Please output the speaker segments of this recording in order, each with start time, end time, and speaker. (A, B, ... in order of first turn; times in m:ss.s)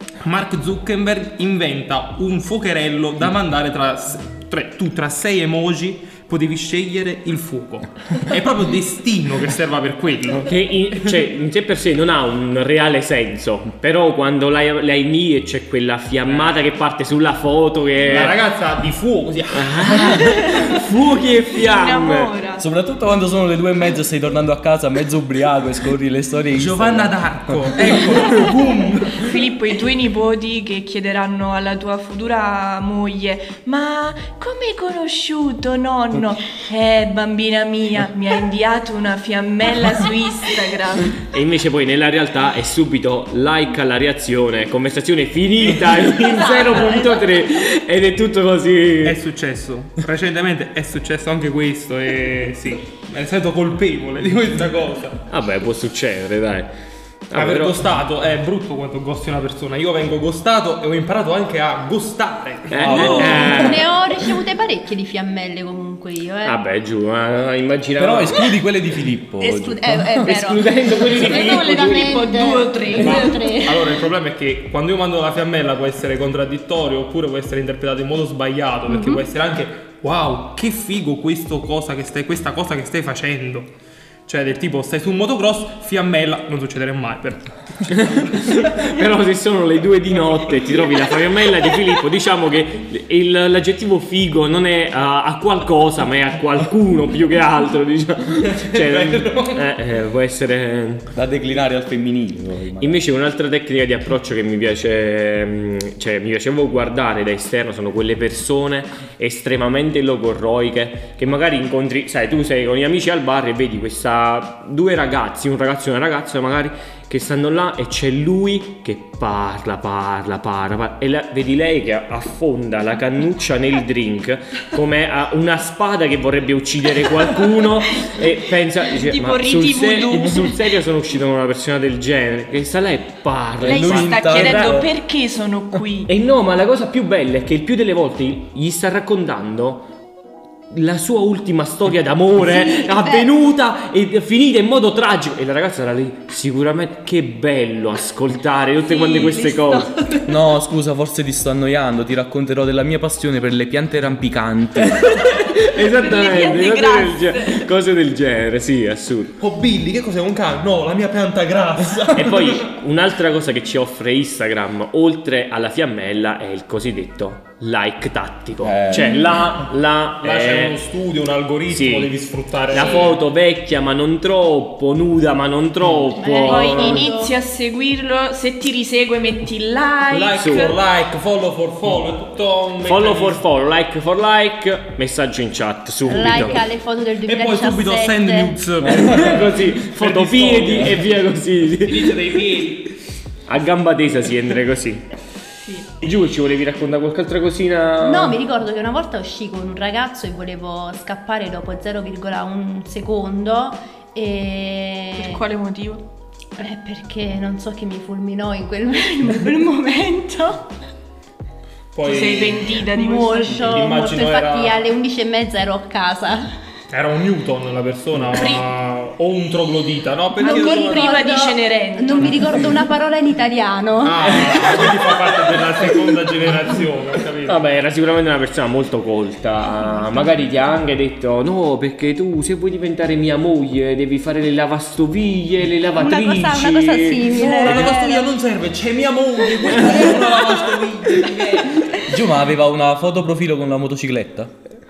0:00.2-0:10.5 A
0:10.4-0:18.4 B
0:16.2-0:16.6 A
0:18.0-0:20.2 A
0:19.5-0:22.3 B
0:20.1-0:20.8 C
0:21.6-0:22.6 C
0:22.6-0:28.5 D
0:26.6-0:29.4 A
0:29.1-0:41.2 C
0:41.2-0:49.2 B
0:49.0-0:55.2 A
0:55.3-0:56.7 B
0:57.3-0:57.8 B
0:57.3-1:03.8 A
1:02.7-1:03.9 B
1:02.8-1:03.4 D
1:03.0-1:06.6 E
1:06.4-1:08.6 B
1:08.0-1:10.2 D
1:09.4-1:14.0 E
1:10.2-1:12.1 B
1:11.2-1:13.4 C
1:13.0-1:23.7 A
1:24.2-1:28.6 A
1:28.0-1:41.1 B
1:38.5-1:39.6 A
1:41.1-1:43.0 D
1:42.8-2:14.8 B
2:08.9-2:10.6 C
2:13.6-2:14.9 D
2:13.6-2:16.1 C
2:16.1-2:19.9 B
2:20.7-2:30.0 B
2:28.8-2:30.3 C
2:30.2-2:35.1 D
2:35.2-2:37.7 C
2:35.4-2:39.4 B
2:39.4-2:42.7 A
2:42.1-2:50.8 B
2:48.6-2:49.3 D
2:50.2-2:53.2 A
2:51.7-2:57.1 B
2:52.8-2:53.1 C
2:56.2-2:57.3 E
2:56.3-3:00.8 C
3:00.1-3:03.4 A
3:00.4-3:00.7 B
3:02.8-3:06.6 B
3:06.1-3:06.6 A
3:06.1-3:08.6 E
3:07.2-3:11.0 A
3:08.8-3:12.3 B
3:11.8-3:12.9 A
3:13.5-3:15.1 B
3:16.0-3:18.4 B
3:18.0-3:25.4 E
3:25.2-3:26.0 C
3:26.6-3:30.6 E
3:31.9-3:32.7 A
3:32.0-3:33.9 C
3:32.9-3:36.5 E
3:33.6-3:34.8 A
3:36.9-3:41.1 A
3:38.3-3:38.6 C
3:40.4-3:44.7 E
3:40.4-3:42.8 C
3:44.0-3:47.6 A
3:47.4-3:57.9 B
3:49.8-3:50.4 E
3:56.0-3:58.3 E
3:57.3-4:02.1 A
4:02.1-4:04.5 D